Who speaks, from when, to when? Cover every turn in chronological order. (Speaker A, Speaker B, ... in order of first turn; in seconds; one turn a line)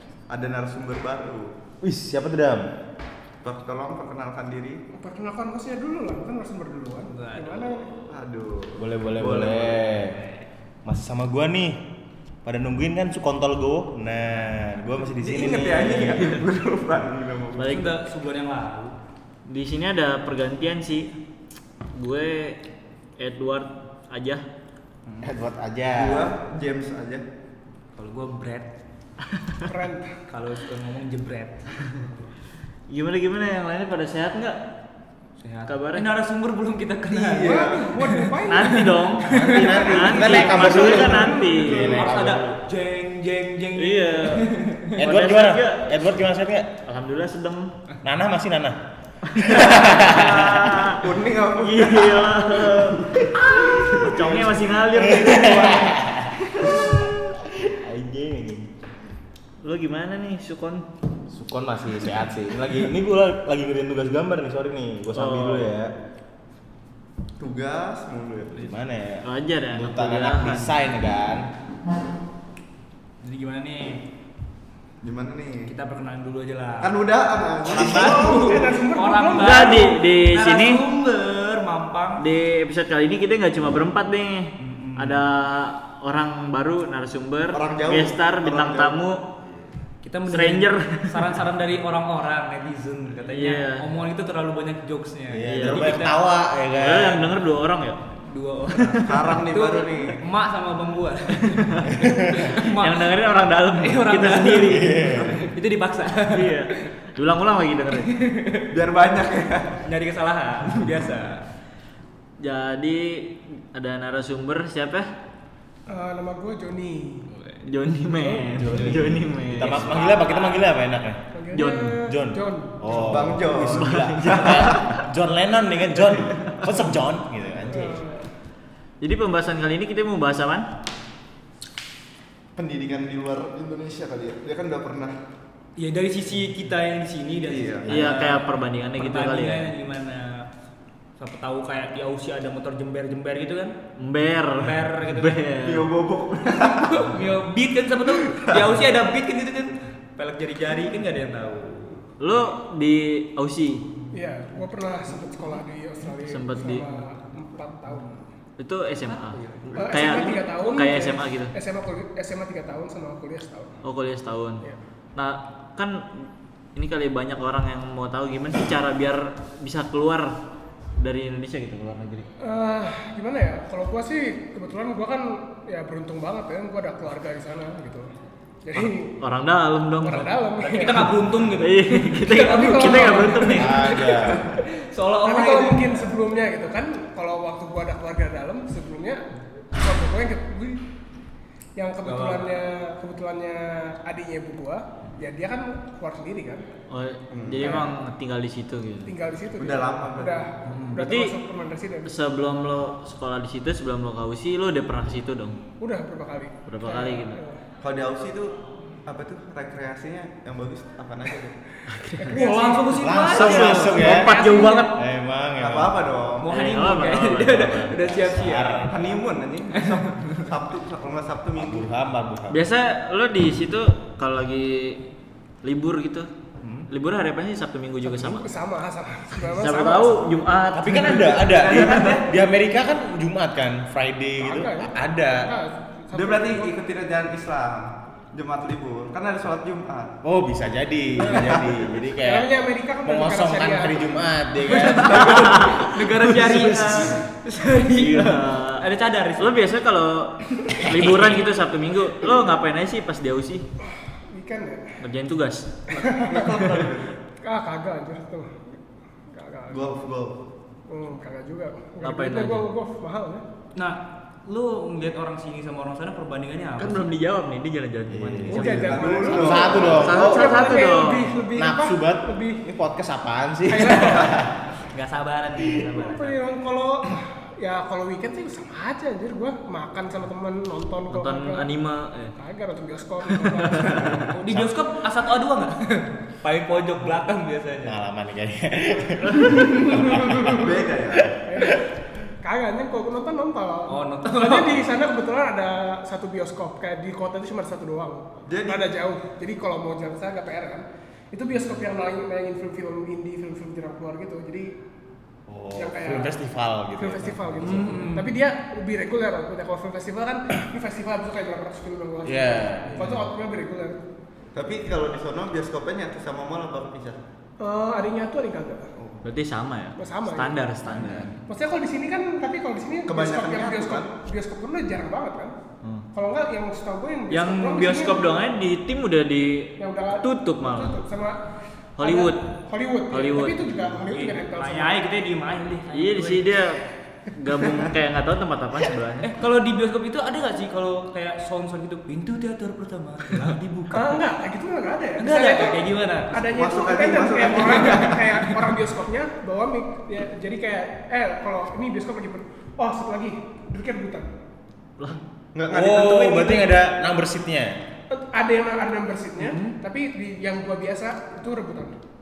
Speaker A: 0.3-1.5
Speaker B: 1.8-2.7
Speaker A: 3.4-4.8
Speaker C: 4.9-7.9
Speaker D: 7.1-7.8
Speaker A: 8.1-10.0
Speaker B: 8.8-10.2
Speaker B: 10.9-11.8
Speaker B: 12.4-16.4
Speaker A: 15.2-17.8
Speaker E: 16.1-16.4
Speaker E: 17.6-17.9
Speaker D: 17.6-18.9
Speaker E: 19.5-21.1
Speaker E: 21.9-22.6
Speaker E: 23.2-24.4
Speaker B: 25.2-26.4
Speaker A: 25.9-27.2
Speaker D: 28.0-28.7
Speaker C: 29.7-30.2
Speaker D: 30.3-32.0
Speaker E: 32.9-34.6
Speaker D: 35.4-45.0
Speaker E: 35.7-36.1
Speaker A: 37.1-37.9
Speaker C: 37.4-41.6
Speaker E: 38.5-42.5
Speaker B: 39.3-42.5
Speaker E: 43.8-45.9
Speaker B: 45.0-46.8
Speaker E: 46.8-47.7
Speaker B: 48.0-48.8
Speaker E: 49.4-49.8
Speaker B: 49.4-50.7
Speaker A: 49.5-57.1
Speaker E: 50.3-51.0
Speaker E: 51.6-55.6
Speaker B: 55.0-58.7
Speaker E: 59.6-60.9
Speaker B: 61.3-65.9
Speaker E: 65.2-65.7
Speaker A: 67.4-68.7
Speaker B: 68.5-71.5
Speaker E: 69.2-70.7
Speaker D: 73.2-74.0
Speaker A: 75.0-75.7
Speaker D: 75.7-76.9
Speaker A: 76.8-78.7
Speaker D: 77.7-82.2
Speaker C: 77.8-79.9
Speaker E: 79.4-80.9
Speaker E: 82.2-89.2
Speaker D: 84.6-85.2
Speaker A: 87.5-89.0
Speaker D: 90.0-96.1
Speaker E: 90.3-91.3
Speaker E: 93.3-93.9
Speaker B: 95.3-97.3
Speaker E: 95.5-96.2
Speaker E: 96.8-98.0
Speaker D: 98.2-103.2
Speaker E: 98.8-99.1
Speaker A: 99.0-100.2
Speaker E: 101.4-105.0
Speaker B: 102.0-102.5
Speaker D: 103.7-106.9
Speaker B: 104.6-105.5
Speaker E: 106.3-108.1
Speaker D: 108.1-108.7
Speaker A: 108.7-109.8
Speaker D: 109.8-111.5
Speaker E: 112.4-115.1
Speaker C: 115.9-117.3
Speaker D: 117.3-117.6
Speaker E: 117.6-120.0
Speaker B: 118.5-128.0
Speaker D: 119.6-120.7
Speaker C: 121.3-123.1
Speaker A: 122.9-124.9
Speaker E: 123.5-125.1
Speaker C: 127.7-128.3
Speaker E: 129.0-130.7
Speaker A: 132.6-135.2
Speaker D: 135.8-140.5
Speaker A: 137.4-137.9
Speaker B: 137.8-138.3
Speaker E: 137.9-139.7
Speaker D: 141.2-143.8
Speaker E: 144.0-145.9
Speaker D: 144.6-145.5
Speaker A: 145.6-147.2
Speaker D: 146.4-152.5
Speaker A: 148.2-148.8
Speaker E: 152.2-153.8
Speaker C: 154.1-158.2
Speaker E: 156.3-156.9
Speaker E: 158.6-161.5
Speaker D: 159.1-159.9
Speaker C: 159.8-163.8
Speaker E: 163.8-164.6
Speaker E: 165.2-170.3
Speaker E: 171.0-172.3
Speaker C: 172.4-178.1
Speaker C: 178.6-179.2
Speaker E: 178.8-184.0
Speaker C: 180.0-181.1
Speaker D: 180.6-186.1
Speaker C: 182.3-183.6
Speaker B: 183.5-184.5
Speaker C: 185.2-190.8
Speaker C: 191.8-196.7
Speaker D: 192.1-192.5
Speaker E: 196.9-199.2
Speaker A: 197.3-197.8
Speaker C: 197.6-197.9
Speaker C: 199.1-202.1
Speaker A: 199.6-200.5
Speaker D: 200.7-200.9
Speaker E: 200.9-201.4
Speaker E: 202.1-205.6
Speaker C: 205.8-207.6
Speaker E: 206.7-207.4
Speaker A: 207.8-211.6
Speaker D: 211.9-214.4
Speaker C: 212.0-214.9
Speaker B: 213.0-214.3
Speaker E: 213.3-215.0
Speaker B: 214.9-216.1
Speaker A: 215.6-216.5
Speaker D: 216.4-218.9
Speaker E: 216.5-218.2
Speaker B: 218.2-219.2
Speaker A: 218.9-221.9
Speaker D: 219.8-220.4
Speaker B: 221.6-222.7
Speaker E: 222.5-225.0
Speaker E: 225.6-226.3
Speaker D: 226.6-226.9
Speaker E: 226.9-228.6
Speaker C: 228.0-230.2
Speaker E: 229.4-231.3
Speaker B: 230.7-235.5
Speaker D: 230.8-231.5
Speaker A: 231.3-232.3
Speaker C: 234.4-236.8
Speaker A: 236.1-240.2
Speaker B: 240.2-247.0
Speaker C: 241.2-241.7
Speaker A: 241.3-241.8
Speaker C: 242.2-244.2
Speaker D: 244.7-249.6
Speaker E: 245.2-247.2
Speaker E: 247.9-248.9
Speaker E: 249.4-253.7
Speaker B: 250.8-251.4
Speaker C: 253.8-255.0
Speaker E: 255.0-255.8
Speaker A: 255.9-257.2
Speaker C: 256.0-256.5
Speaker C: 257.4-258.8
Speaker C: 259.3-259.8
Speaker A: 259.7-260.4
Speaker C: 260.9-263.4
Speaker E: 262.0-262.7
Speaker D: 263.8-267.1
Speaker E: 266.8-269.0
Speaker B: 268.1-274.5
Speaker C: 268.5-272.6
Speaker A: 268.7-270.1
Speaker E: 269.9-271.3
Speaker C: 273.7-274.4
Speaker D: 274.8-276.5
Speaker C: 275.9-281.7
Speaker E: 281.1-282.4
Speaker C: 282.4-284.4
Speaker E: 283.3-283.9
Speaker D: 284.3-288.0
Speaker B: 284.5-284.7
Speaker B: 287.9-291.8
Speaker C: 289.4-290.7
Speaker A: 290.3-291.4
Speaker C: 291.4-291.9
Speaker C: 292.4-304.8
Speaker D: 293.9-294.9
Speaker A: 298.5-298.9
Speaker B: 305.5-308.1
Speaker C: 305.8-306.4
Speaker C: 306.9-314.0
Speaker D: 307.6-308.4
Speaker B: 312.2-313.3
Speaker A: 314.6-317.2
Speaker C: 317.6-318.9
Speaker A: 319.0-319.2
Speaker E: 319.2-321.4
Speaker C: 320.0-320.7
Speaker B: 320.9-321.3
Speaker C: 321.5-325.5
Speaker A: 323.1-324.1
Speaker C: 326.1-328.4
Speaker E: 327.3-331.0
Speaker C: 329.8-335.0
Speaker E: 332.0-332.5
Speaker E: 333.1-333.7
Speaker D: 334.1-336.6
Speaker E: 335.9-339.3
Speaker D: 339.2-344.2
Speaker C: 343.9-354.3
Speaker D: 345.2-346.4
Speaker A: 346.5-348.4
Speaker A: 355.5-356.8
Speaker B: 355.7-357.8
Speaker C: 358.1-361.9
Speaker D: 359.4-359.8